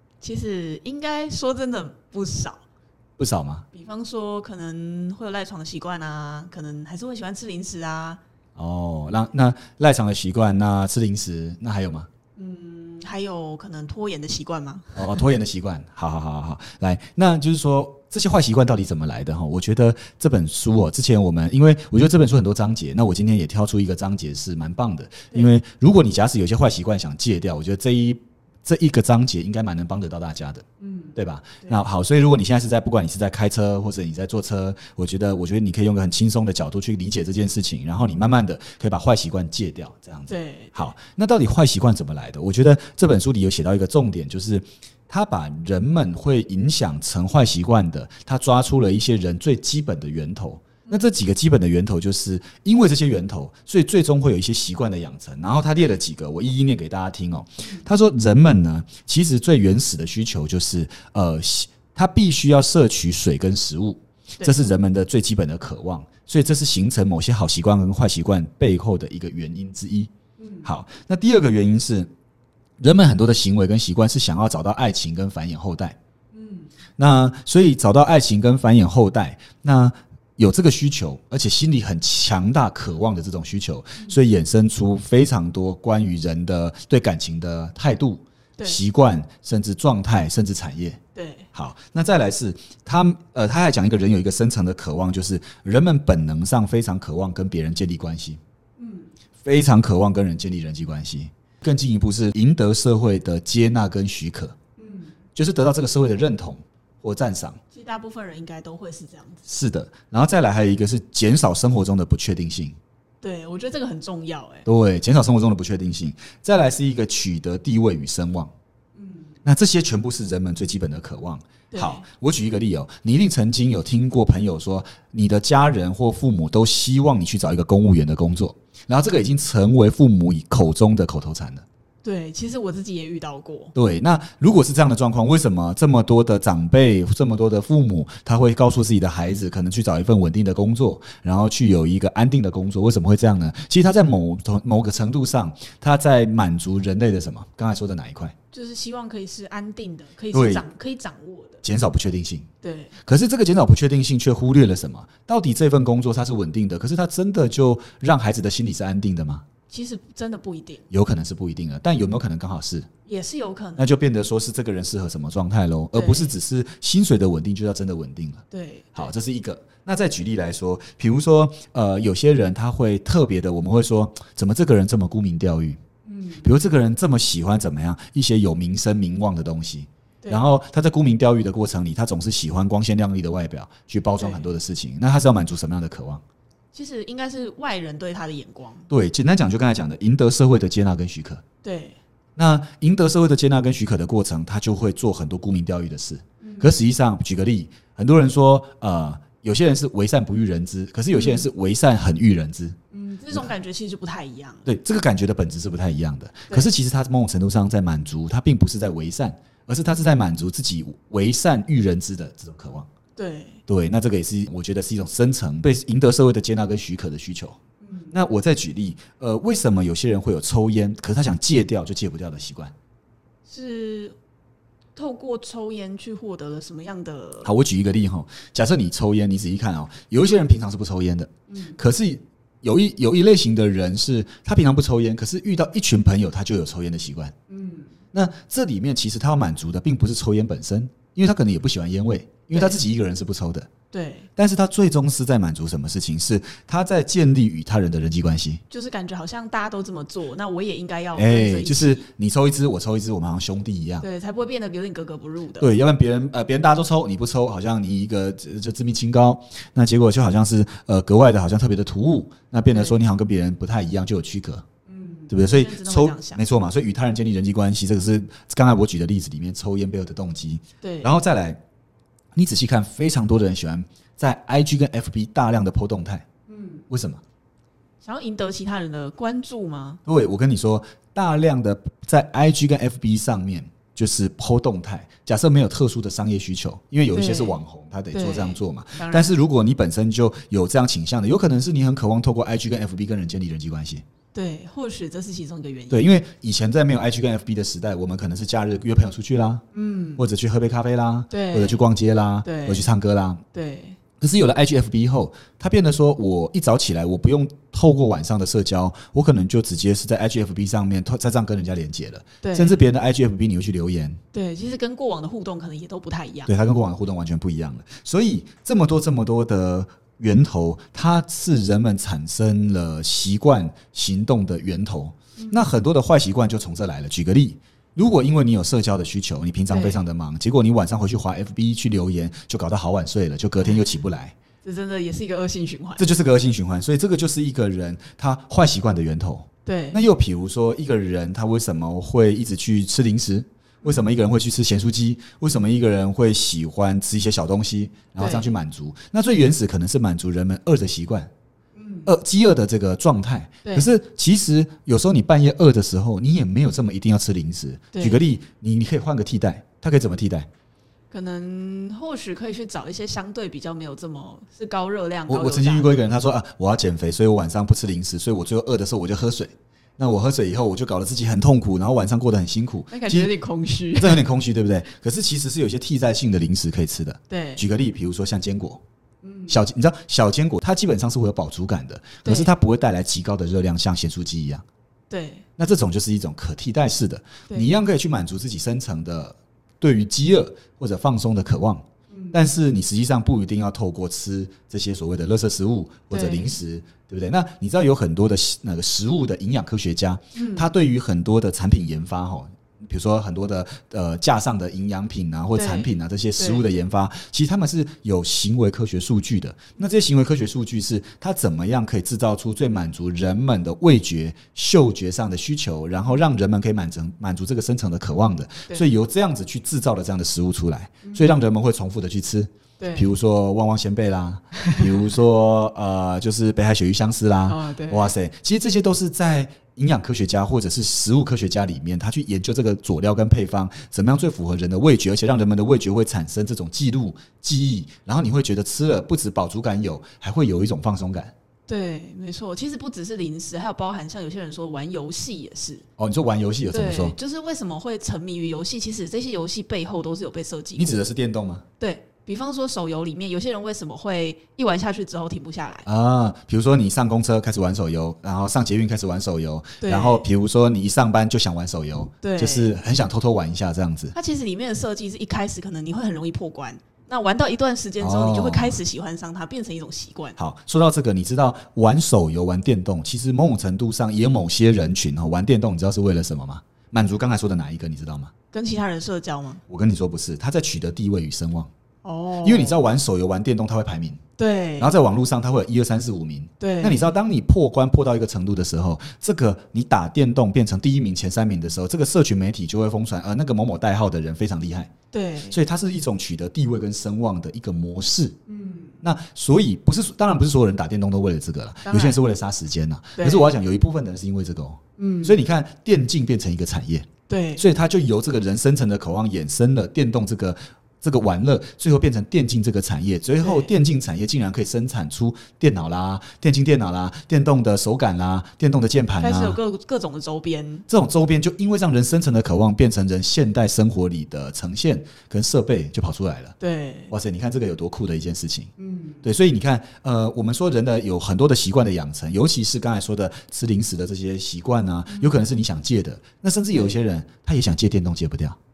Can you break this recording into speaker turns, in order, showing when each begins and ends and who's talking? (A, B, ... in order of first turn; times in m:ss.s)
0:00.2-0:02.6 A
0:03.2-0:03.6 B
0:03.7-0:08.2 A
0:08.6-0:12.1 B
0:12.4-0:15.2 A
0:14.9-0:30.6 B
0:30.8-0:31.8 A
0:31.2-1:10.1 B
0:40.3-0:40.9 A
1:10.4-1:10.7 A
1:10.6-1:12.1 B
1:12.8-1:16.0 B
1:16.3-1:16.7 A
1:17.0-1:31.0 B
1:31.1-1:31.5 A
1:31.5-1:38.4 B
1:38.8-1:39.1 A
1:39.4-1:44.5 B
1:44.8-1:45.1 A
1:45.3-1:47.6 B
1:47.7-1:49.4 A
1:49.5-1:52.8 B
1:53.2-1:54.6 A
1:54.6-1:58.5 B
1:59.0-1:59.3 A
1:59.4-2:11.6 B
2:01.7-2:02.0 A
2:12.0-2:13.7 A
2:13.7-2:28.3 B
2:28.5-2:31.6 A
2:30.3-2:30.6 B
2:31.6-2:32.5 B
2:32.6-2:33.0 A
2:33.0-2:39.4 B
2:39.7-2:40.8 A
2:40.9-2:42.9 B
2:43.0-2:43.9 A
2:43.8-2:55.8 B
2:45.9-2:46.3 A
2:48.5-2:49.1 A
2:56.0-2:56.5 A
2:56.4-3:06.2 B
3:04.2-3:04.5 A
3:06.7-3:08.9 A
3:08.9-3:11.4 B
3:11.6-3:12.0 A
3:12.4-3:22.8 B
3:16.4-3:16.7 A
3:21.1-3:21.5 A
3:22.9-3:24.7 A
3:24.6-3:32.9 B
3:33.2-3:33.6 A
3:33.7-3:37.6 B
3:37.8-3:38.1 A
3:38.1-3:42.7 B
3:43.5-3:44.2 A
3:45.0-3:47.5 A
3:47.4-3:57.3 B
3:51.5-3:51.8 A
3:57.5-3:57.9 A
3:58.1-4:03.7 B
4:02.5-4:02.8 A
4:03.9-4:04.3 A
4:04.4-4:08.6 B
4:08.7-4:12.0 A
4:11.2-4:14.0 B
4:14.0-4:15.7 A
4:15.6-4:24.6 B
4:22.7-4:23.0 A
4:24.9-4:26.4 A
4:25.3-4:31.6 B
4:30.8-4:31.1 A
4:32.3-4:36.2 B
4:36.5-4:36.8 A
4:36.9-4:37.2 B
4:38.0-4:40.0 A
4:40.0-4:54.0 B
4:47.1-4:47.6 A
4:48.1-4:49.3 A
4:54.3-4:56.1 A
4:55.9-4:59.6 B
4:59.7-5:00.2 A
5:00.2-5:03.4 B
5:01.3-5:01.8 A
5:02.4-5:02.9 A
5:03.5-5:04.0 A
5:04.2-5:14.2 B
5:12.4-5:12.8 A
5:14.3-5:16.5 A
5:16.4-5:34.3 B
5:25.4-5:25.6 A
5:29.7-5:30.0 A
5:34.6-5:36.1 A
5:36.0-5:51.3 B
5:39.6-5:40.0 A
5:48.2-5:48.5 A
5:51.8-5:52.1 A
5:52.0-6:00.5 B
5:53.6-5:53.9 A
5:57.9-5:58.2 A
6:01.1-6:05.9 A
6:05.3-6:13.3 B
6:12.9-6:14.2 A
6:14.0-6:18.8 B
6:17.3-6:17.6 A
6:19.2-6:19.6 A
6:19.5-6:24.6 B
6:22.2-6:22.5 A
6:25.1-6:25.4 A
6:25.6-7:21.3 B
6:32.1-6:32.4 A
6:36.1-6:36.6 A
6:40.3-6:40.7 A
6:45.5-6:46.6 A
7:01.0-7:01.3 A
7:02.8-7:03.1 A
7:04.6-7:04.9 A
7:07.5-7:08.1 A
7:21.7-7:25.8 A
7:26.0-7:27.2 B
7:26.7-7:31.0 A
7:30.8-7:31.6 B
7:31.8-7:35.8 A
7:35.8-7:44.1 B
7:39.8-7:40.3 A
7:42.2-7:42.7 A
7:44.1-7:50.4 A
7:48.0-7:48.8 B
7:50.4-7:58.3 B
7:58.5-7:59.6 A
7:59.7-8:01.7 B
8:02.0-8:02.8 A
8:02.4-8:04.2 B
8:04.4-8:04.9 A
8:04.8-8:14.9 B
8:06.6-8:07.1 A
8:15.1-8:15.6 A
8:15.5-8:18.4 B
8:18.5-8:18.9 A
8:19.0-8:39.6 B
8:21.8-8:22.2 A
8:23.2-8:23.5 A
8:25.0-8:25.4 A
8:27.3-8:27.6 A
8:33.4-8:33.7 A
8:39.2-8:40.8 A
8:40.9-8:46.5 B
8:46.6-8:47.1 A
8:47.1-8:48.7 B
8:48.8-8:49.2 A
8:49.2-8:58.6 B
8:55.1-8:55.4 A